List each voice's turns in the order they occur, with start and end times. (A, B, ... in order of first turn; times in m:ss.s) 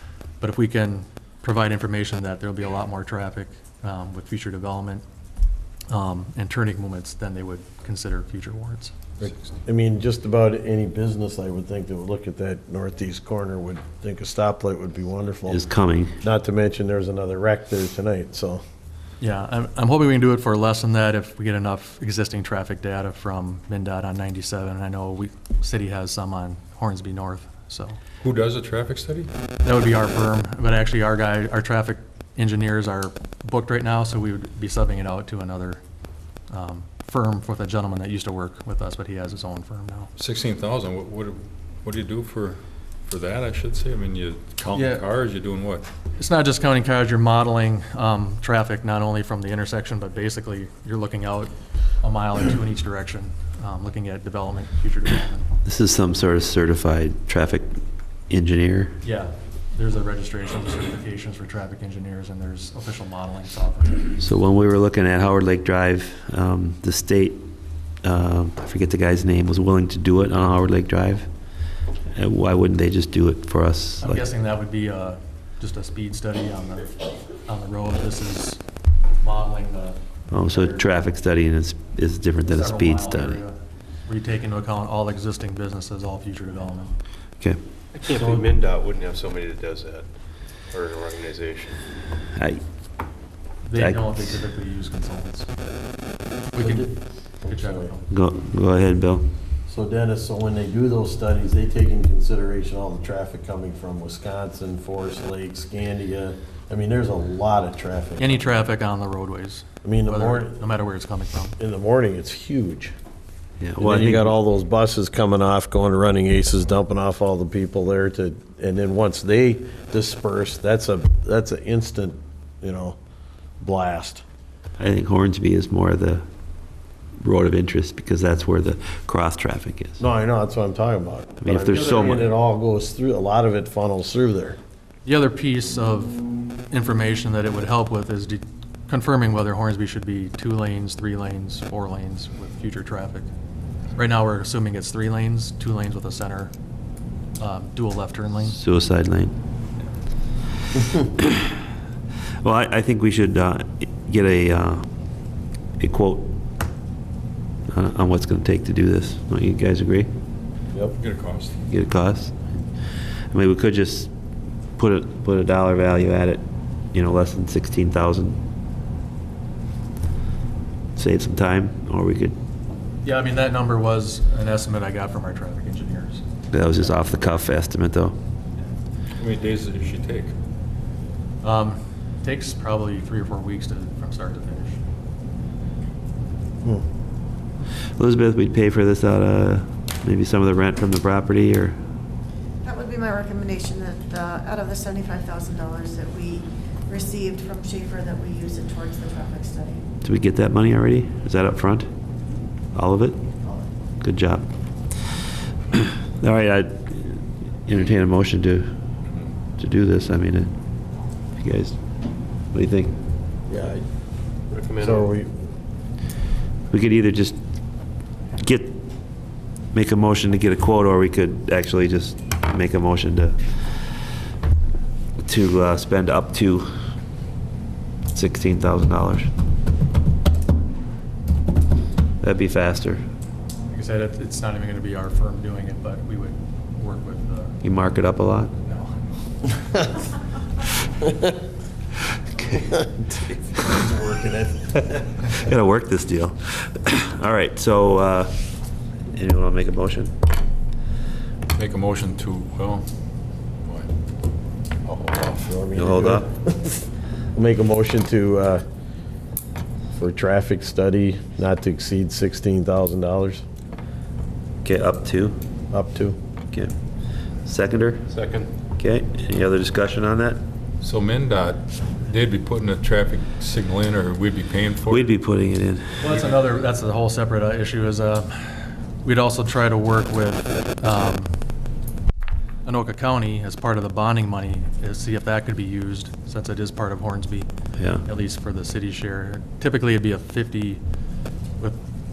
0:00.4-0:05.0 A
0:05.9-0:09.1 A
0:09.6-0:15.6 B
0:15.5-0:16.1 C
0:16.2-0:18.6 B
0:19.2-0:28.0 A
0:28.2-0:29.3 D
0:29.6-0:35.8 A
0:36.5-0:40.1 A
0:40.2-0:45.8 D
0:44.7-0:45.0 A
0:46.1-0:55.5 A
0:55.6-0:57.8 C
0:58.3-0:58.9 C
0:59.0-1:04.2 A
1:04.2-1:07.4 C
1:08.0-1:11.3 C
1:12.1-1:14.2 C
1:14.0-1:18.6 A
1:19.2-1:20.8 A
1:20.3-1:23.4 C
1:22.4-1:26.9 A
1:27.9-1:30.1 E
1:30.7-1:31.8 E
1:32.3-1:32.6 C
1:33.6-1:35.5 A
1:36.5-1:38.1 A
1:36.6-1:37.9 B
1:38.1-1:39.2 C
1:39.7-1:48.5 B
1:48.2-1:51.6 A
1:49.8-1:50.6 B
1:51.6-1:52.9 B
1:53.6-1:54.2 C
1:53.8-2:03.0 B
2:03.6-2:04.2 B
2:04.8-2:06.2 C
2:07.2-2:10.0 C
2:10.0-2:14.6 B
2:11.4-2:12.1 C
2:15.0-2:23.3 A
2:23.9-2:26.5 A
2:27.4-2:28.6 A
2:28.5-2:29.3 C
2:32.4-2:34.8 C
2:35.8-2:36.3 C
2:37.7-2:40.1 C
2:40.9-2:41.6 D
2:41.7-2:42.4 C
2:43.3-2:44.1 C
2:44.8-2:46.4 C
2:46.9-2:48.4 C
2:51.0-2:52.3 C
2:53.0-2:56.2 A
2:56.5-2:58.1 C
2:59.2-3:00.3 D
3:01.4-3:04.8 A
3:08.0-3:11.7 C
3:12.6-3:19.8 F
3:20.0-3:21.9 C
3:22.7-3:23.2 C
3:24.0-3:24.4 C
3:25.8-3:28.7 C
3:29.6-3:30.5 C
3:31.4-3:31.8 C
3:32.5-3:32.9 C
3:33.5-3:33.8 B
3:34.5-3:35.1 E
3:34.8-3:35.3 B
3:36.7-3:37.4 C
3:38.4-3:38.8 C
3:39.7-3:43.4 C
3:45.2-3:46.6 C
3:48.1-3:49.3 C
3:52.2-3:53.0 C
3:53.7-3:57.6 A
3:57.6-3:58.5 C
3:58.6-3:59.0 A
4:02.6-4:05.4 B
4:05.3-4:08.3 C
4:09.1-4:10.1 C
4:11.5-4:12.8 D
4:13.6-4:13.9 D
4:14.8-4:15.5 D
4:15.4-4:18.6 B
4:15.7-4:16.2 C
4:20.0-4:23.4 B
4:24.7-4:25.4 C
4:25.7-4:26.2 B
4:27.4-4:28.0 C
4:28.1-4:28.5 E
4:28.8-4:30.4 C
4:30.8-4:35.1 D
4:34.9-4:36.0 C
4:36.0-4:41.4 A
4:42.6-4:47.5 A
4:48.0-4:50.8 A